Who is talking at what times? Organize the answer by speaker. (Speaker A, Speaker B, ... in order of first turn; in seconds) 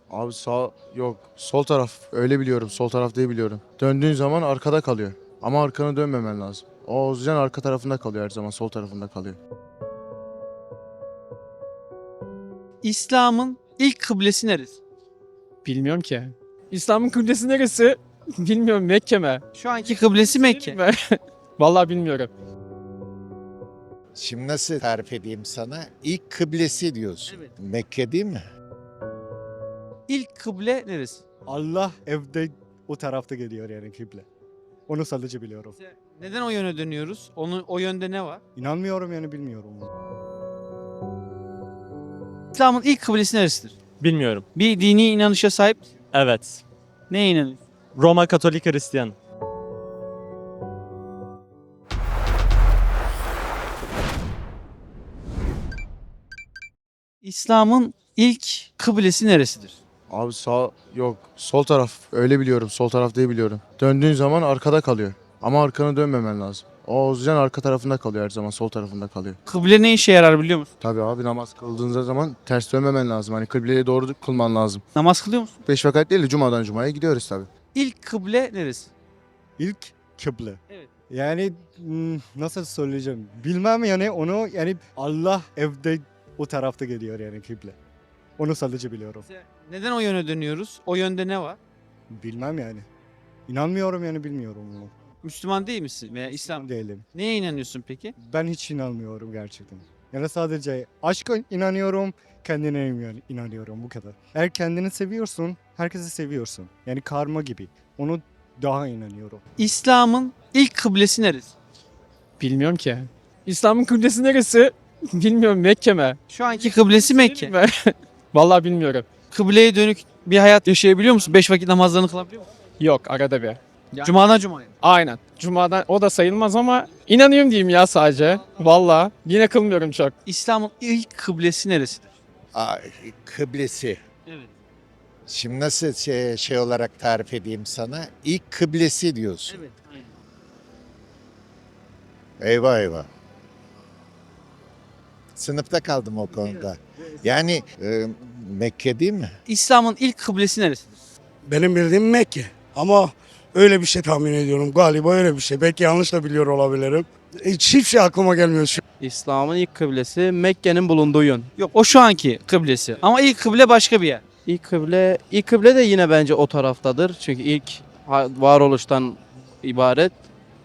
Speaker A: 0.1-9.4, 60.1-69.4, 70.8-74.8, 75.7-77.5
Speaker B: 12.8-14.8, 19.5-20.8, 30.1-31.2, 36.2-38.4, 42.5-43.8, 44.5-45.8, 47.1-47.6, 57.2-59.8, 69.5-70.7, 75.0-75.5, 77.7-78.9, 89.5-91.6, 95.2-98.1, 109.6-111.5, 116.3-117.5, 119.3-122.5, 124.0-124.7, 130.2-132.1, 149.5-151.0, 161.6-164.2
Speaker C: 15.6-19.4, 20.4-22.3, 112.4-119.1, 122.8-124.1, 124.8-130.1
Speaker D: 24.1-28.4, 132.6-134.0, 135.3-139.6, 142.4-143.1, 145.3-149.3
Speaker E: 31.5-34.2, 34.9-35.8, 38.5-39.9, 79.6-80.6, 81.1-87.8, 88.4-89.2, 92.1-92.9, 93.5-94.9, 96.5-97.1, 98.2-109.4
Speaker F: 44.0-44.4, 46.1-46.6, 47.9-49.2
Speaker G: 151.4-158.8
Speaker H: 159.0-161.5, 164.5-170.2